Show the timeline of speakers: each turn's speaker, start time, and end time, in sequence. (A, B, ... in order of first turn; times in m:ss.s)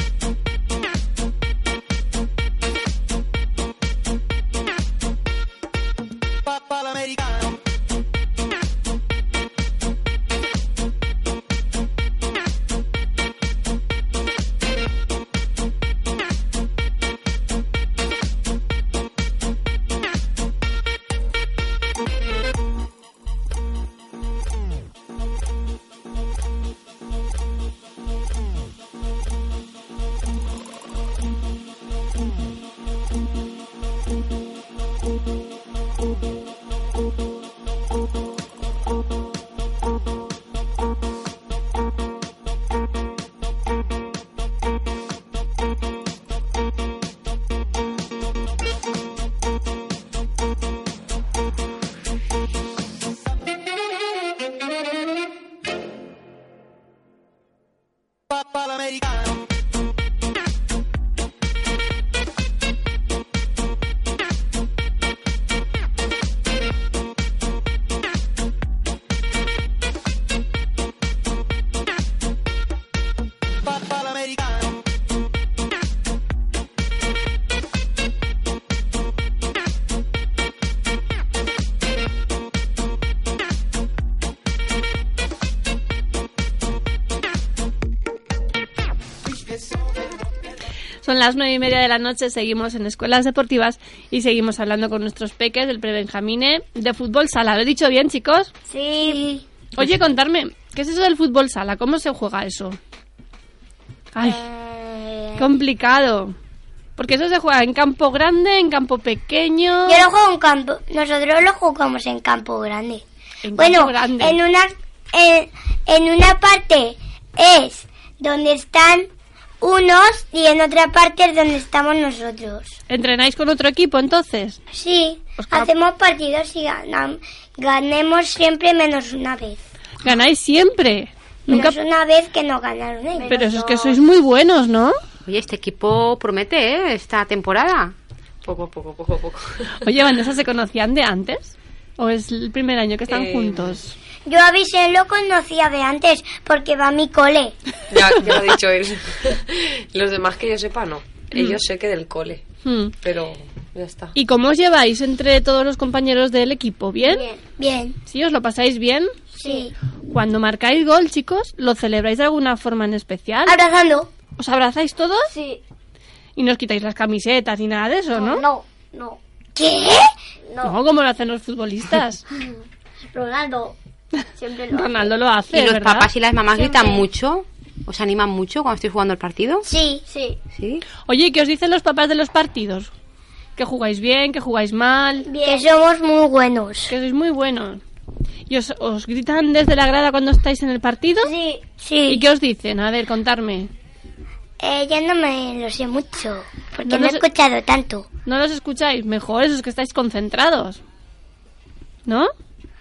0:06.4-0:07.6 A
0:58.3-0:59.5 A
1:13.6-1:14.8 A
1:29.3-1:29.9 A
1:31.0-1:38.5 B
1:38.7-1:39.3 C
1:39.0-1:39.4 D
1:39.8-1:42.8 B
1:44.1-1:44.4 B
1:44.2-1:45.5 D
1:45.4-1:46.3 B
1:47.0-1:50.1 B
1:49.8-1:53.0 D
1:53.4-1:54.4 B
1:53.6-1:59.1 D
1:59.6-2:02.8 D
2:02.9-2:04.6 B
2:04.7-2:09.6 D
2:05.4-2:05.7 B
2:10.0-2:11.8 B
2:11.5-2:13.3 D
2:13.1-2:14.0 C
2:13.3-2:14.9 B
2:15.2-2:17.9 E
2:18.4-2:19.8 F
2:19.8-2:23.9 B
2:23.1-2:23.8 F
2:24.2-2:27.6 D
2:27.9-2:32.5 F
2:31.3-2:31.6 B
2:32.6-2:32.9 B
2:33.0-2:34.1 F
2:34.1-2:37.2 B
2:37.0-2:37.4 C
2:37.6-2:38.0 D
2:38.1-2:39.1 B
2:39.4-2:39.7 C
2:39.4-2:39.7 D
2:40.1-2:43.6 B
2:43.4-2:44.1 D
2:44.4-2:45.3 B
2:45.3-2:45.6 C
2:46.4-2:48.4 B
2:48.1-2:49.2 C
2:49.6-2:50.1 D
2:50.5-2:50.8 C
2:50.6-2:52.2 B
2:52.3-2:53.8 C
2:54.4-2:55.1 C
2:54.7-2:56.1 B
2:55.5-2:59.6 E
2:56.5-2:57.0 C
2:59.6-3:00.0 D
3:00.1-3:00.4 C
3:00.5-3:00.8 E
3:01.1-3:02.9 B
3:03.6-3:05.3 B
3:05.3-3:05.7 C
3:05.4-3:06.9 D
3:06.9-3:07.8 B
3:08.5-3:11.3 B
3:11.2-3:11.7 C
3:11.8-3:12.2 D
3:12.1-3:13.7 B
3:14.6-3:18.1 D
3:16.8-3:17.2 B
3:18.2-3:20.8 B